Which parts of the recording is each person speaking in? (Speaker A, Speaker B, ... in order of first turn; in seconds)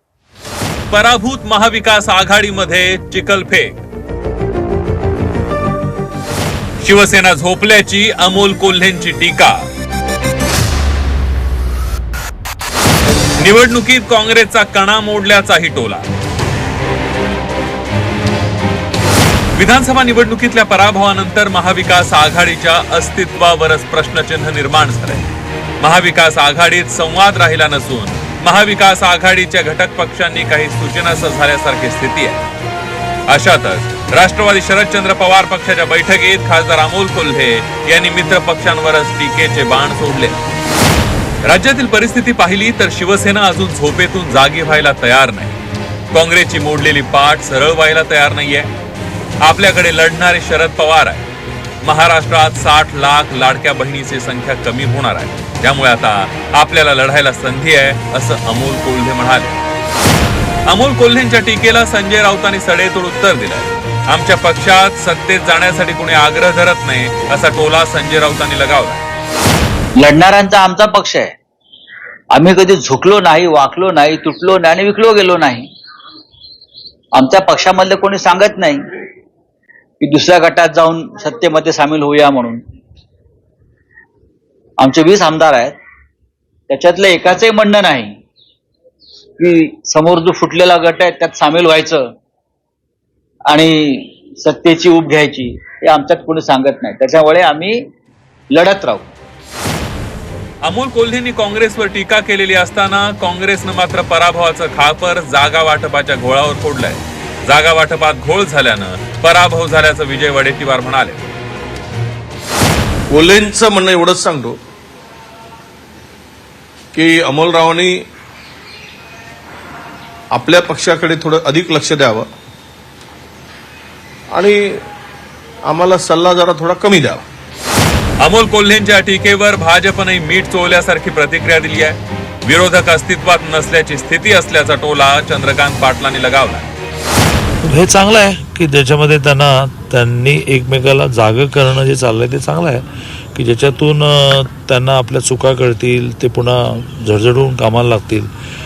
Speaker A: 0.9-3.8, 6.8-9.7, 13.4-16.1, 19.6-25.3, 25.8-32.4, 33.3-40.4, 41.4-45.6, 46.1-48.7, 49.4-51.3, 51.8-59.6, 60.7-69.1, 100.6-111.2, 128.2-136.7
Speaker B: 70.0-71.3, 72.3-75.7, 77.1-78.8, 80.0-82.6, 84.8-85.8, 86.7-88.2, 89.4-92.0, 93.5-97.8, 98.5-99.0
Speaker C: 113.1-114.6, 116.9-118.0, 120.3-122.3, 124.3-124.6, 125.7-127.2
Speaker D: 137.6-148.3